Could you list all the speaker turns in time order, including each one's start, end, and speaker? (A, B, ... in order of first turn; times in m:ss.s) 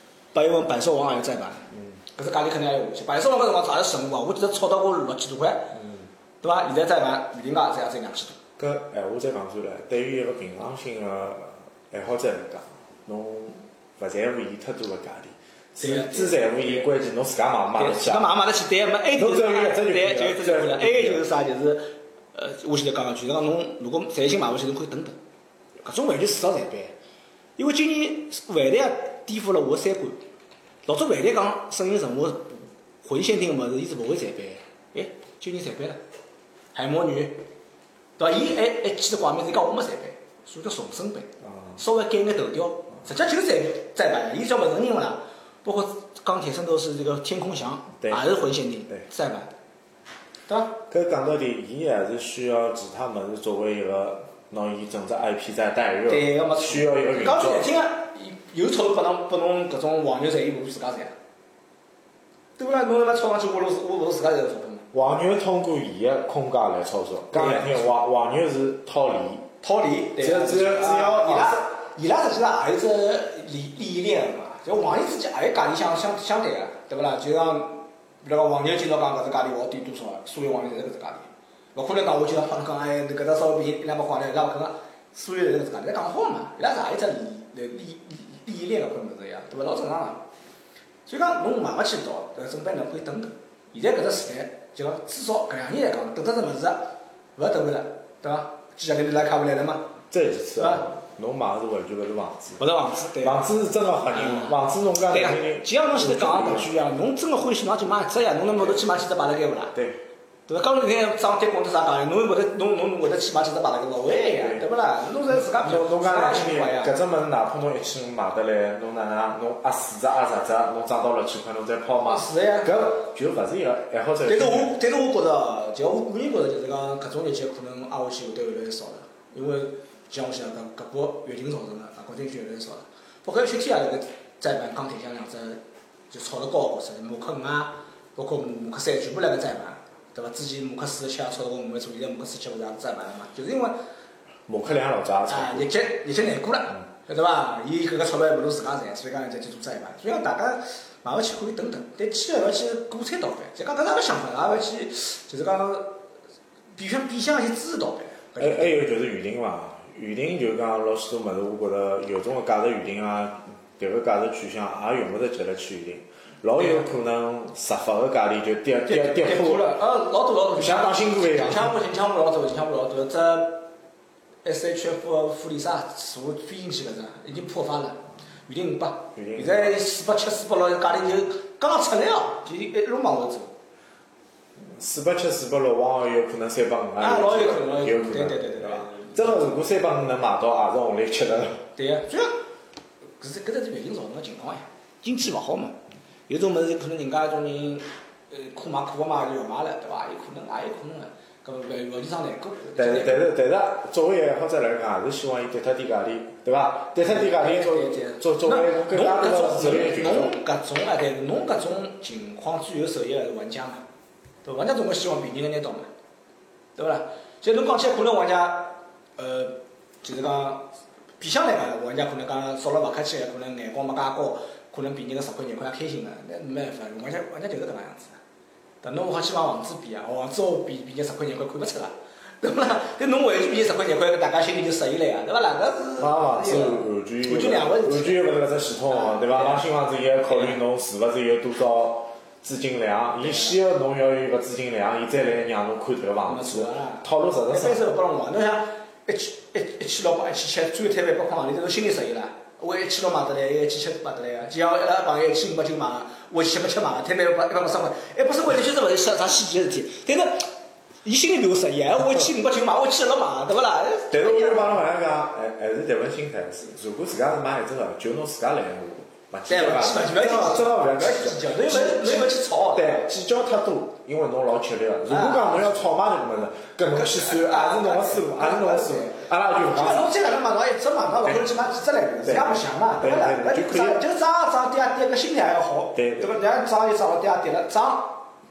0:00.3-0:05.8 A
0:06.4-0:08.4 A
0:08.6-0:18.3 B
0:15.8-0:16.9 A
0:17.7-0:25.2 A
0:19.1-0:21.2 B
0:25.8-0:26.9 A
0:27.6-0:30.2 A
0:30.8-0:36.0 A
0:36.7-0:37.4 A
0:38.2-0:49.5 A
0:50.5-0:50.8 A
0:50.9-0:57.7 B
0:56.1-1:01.1 A
1:02.6-1:04.9 A
1:04.9-1:09.5 B
1:07.3-1:07.9 A
1:09.6-1:30.2 A
1:10.2-1:11.6 B
1:31.1-1:40.0 A
1:40.1-1:42.6 B
1:40.6-1:40.9 A
1:42.6-1:43.5 A
1:43.2-1:46.7 B
1:44.1-1:49.7 A
1:49.7-1:50.0 B
1:50.5-1:56.9 A
1:55.3-2:04.8 B
2:02.1-2:02.7 A
2:04.3-2:15.6 A
2:16.1-2:23.8 A
2:24.5-2:25.7 B
2:25.3-2:36.0 A
2:36.8-2:38.8 A
2:38.4-2:49.7 B
2:46.6-2:46.8 A
2:48.8-2:53.7 A
2:50.5-2:51.7 B
2:54.4-3:03.5 A
2:59.2-2:59.8 B
3:04.7-3:11.6 B
3:07.0-3:09.6 A
3:11.8-3:12.4 A
3:13.2-3:23.3 A
3:22.8-3:30.3 B
3:27.0-3:33.8 A
3:34.4-3:35.9 A
3:36.8-3:48.2 A
3:48.8-3:58.4 A
3:56.0-4:07.8 B
3:58.9-3:59.7 A
4:00.3-4:00.6 A
4:06.2-4:20.5 A
4:21.0-4:24.8 A
4:24.1-4:40.1 B
4:29.5-4:33.1 A
4:35.1-4:35.7 A
4:36.9-4:48.3 A
4:42.2-4:44.0 B
4:45.9-4:46.3 B